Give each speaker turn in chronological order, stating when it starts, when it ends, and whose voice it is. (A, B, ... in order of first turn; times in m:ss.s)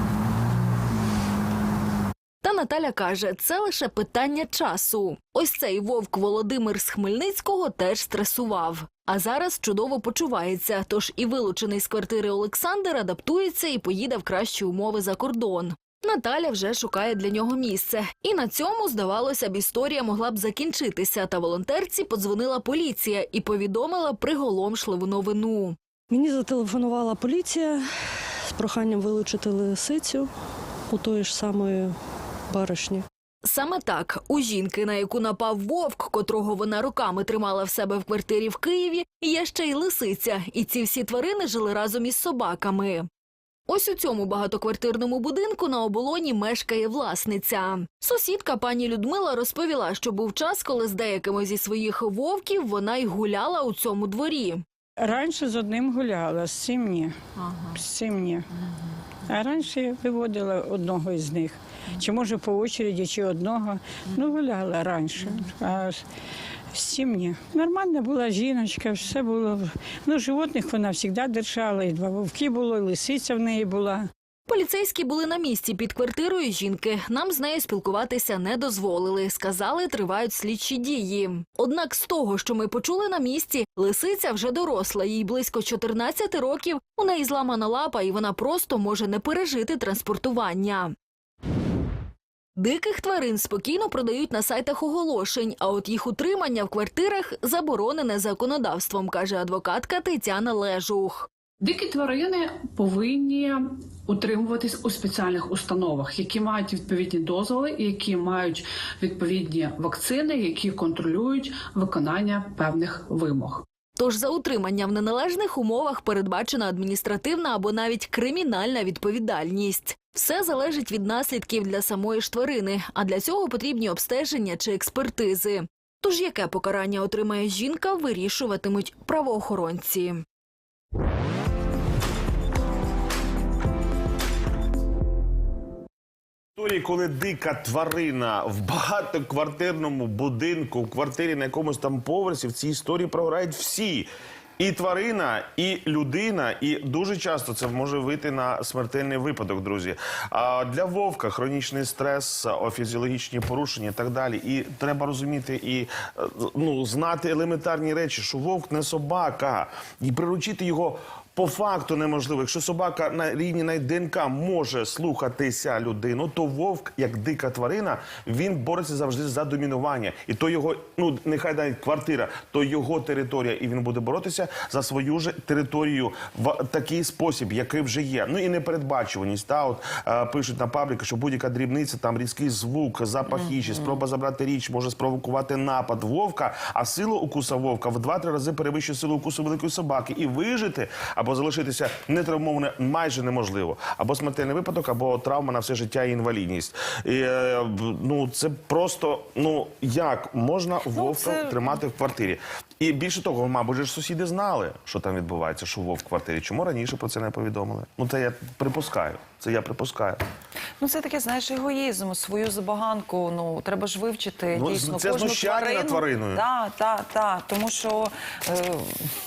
0:02.4-0:25.8 A
0:26.1-0:30.3 B
0:30.9-0:32.0 B
0:32.5-0:33.0 B
0:33.4-0:43.1 A
0:43.7-0:54.6 A
0:55.0-0:58.5 C
0:59.2-1:06.0 C
1:06.7-1:14.1 C
1:14.5-1:30.9 A
1:32.6-1:41.3 A
1:41.6-1:53.7 D
1:54.0-2:10.2 A
2:16.6-3:30.2 E
3:20.9-3:21.7 F
3:30.8-3:39.1 F
3:34.5-3:36.4 E